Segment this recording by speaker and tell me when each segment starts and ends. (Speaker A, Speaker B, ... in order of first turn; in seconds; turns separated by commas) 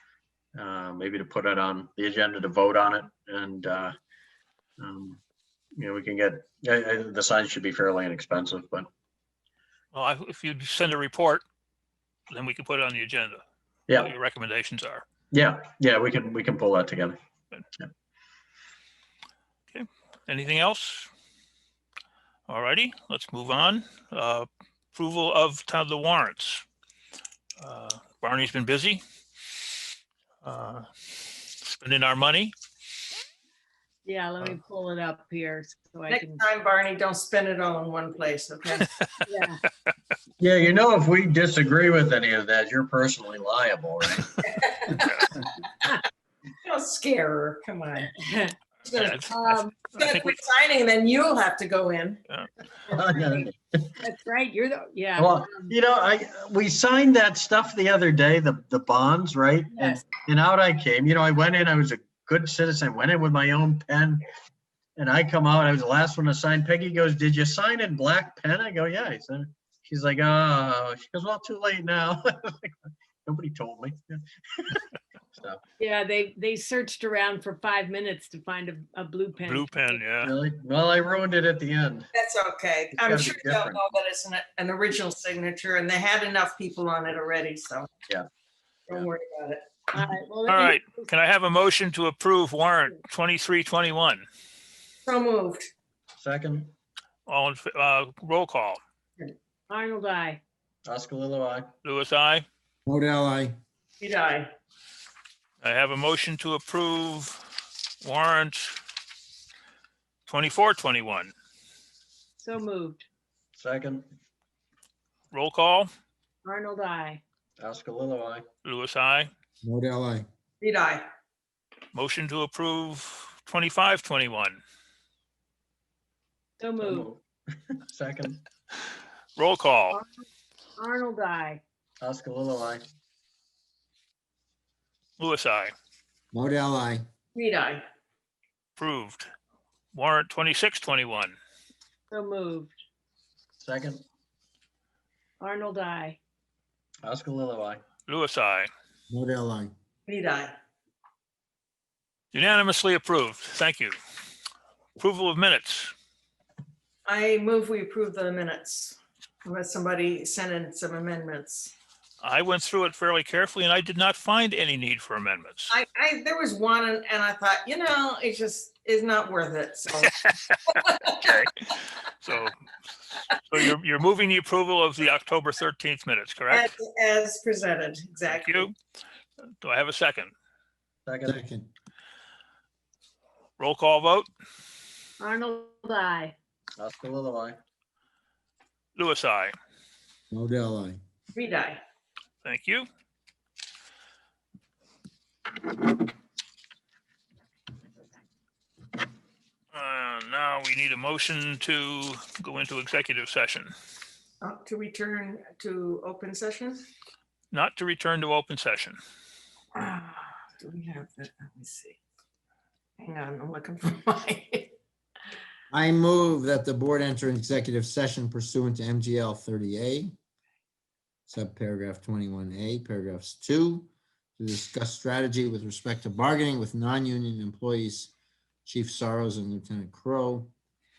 Speaker A: 0.6-3.9, Speaker A: 4.8-5.2, Speaker A: 5.8-8.9, Speaker B: 9.9-11.4, Speaker B: 12.3-13.4, Speaker B: 13.9-15.1, Speaker A: 15.3-17.2, Speaker B: 19.7-21.1, Speaker B: 22.5-26.6, Speaker B: 27.6-29.0, Speaker B: 30.4-32.5, Speaker C: 34.0-36.4, Speaker D: 36.1-38.8, Speaker B: 38.8-39.1, Speaker C: 39.2-39.6, Speaker A: 40.4-44.4, Speaker D: 44.4-45.2, Speaker B: 45.0-45.3, Speaker D: 46.6-48.1, Speaker C: 48.1-48.5, Speaker D: 48.9-52.2, Speaker B: 48.9-50.3, Speaker C: 49.3-49.8, Speaker A: 52.9-53.9, Speaker C: 52.9-55.7, Speaker A: 55.2-64.2, Speaker A: 65.0-74.8, Speaker A: 75.3-75.6, Speaker C: 75.8-80.0, Speaker B: 79.4-80.3, Speaker A: 80.2-82.1, Speaker D: 82.1-87.9, Speaker A: 82.9-83.8, Speaker D: 88.9-89.9, Speaker C: 89.9-90.9, Speaker B: 90.5-94.2, Speaker D: 95.0-95.7, Speaker A: 96.2-96.7, Speaker B: 97.3-98.8, Speaker C: 99.7-100.4, Speaker A: 100.8-101.7, Speaker B: 101.8-102.5, Speaker E: 102.8-103.5, Speaker D: 104.0-104.5, Speaker B: 105.6-107.4, Speaker B: 108.0-108.8, Speaker B: 110.3-111.3, Speaker C: 112.4-113.0, Speaker A: 113.5-114.0, Speaker B: 115.3-115.9, Speaker C: 116.4-117.2, Speaker A: 117.6-118.4, Speaker B: 118.6-119.3, Speaker E: 119.6-120.2, Speaker D: 120.6-121.0, Speaker B: 121.9-124.6, Speaker C: 126.6-127.1, Speaker A: 126.8-127.2, Speaker A: 127.7-128.4, Speaker B: 129.4-130.0, Speaker C: 130.8-131.6, Speaker A: 132.0-132.8, Speaker B: 135.2-135.7, Speaker E: 136.3-137.0, Speaker D: 137.3-137.8, Speaker B: 138.8-139.3, Speaker B: 139.9-141.3, Speaker C: 142.1-142.7, Speaker A: 143.6-144.0, Speaker C: 145.4-146.2, Speaker A: 147.0-147.8, Speaker B: 148.1-148.7, Speaker E: 149.1-149.7, Speaker D: 150.1-150.5, Speaker B: 152.3-153.9, Speaker B: 155.0-155.9, Speaker D: 157.1-161.7, Speaker B: 162.2-165.7, Speaker D: 165.7-171.2, Speaker B: 170.2-172.6, Speaker B: 173.1-176.7, Speaker D: 176.5-178.7, Speaker B: 178.2-178.7, Speaker B: 179.6-180.3, Speaker A: 181.1-181.4, Speaker E: 181.2-181.7, Speaker B: 183.6-184.3, Speaker C: 185.2-186.3, Speaker A: 186.8-187.6, Speaker B: 188.9-189.5, Speaker E: 190.3-191.0, Speaker D: 191.3-191.8, Speaker B: 192.4-192.9, Speaker B: 199.7-203.7, Speaker D: 204.4-206.8, Speaker B: 207.5-209.0, Speaker D: 209.7-212.0, Speaker D: 213.0-214.7, Speaker E: 215.7-220.1, Speaker E: 221.3-228.1, Speaker E: 228.7-230.5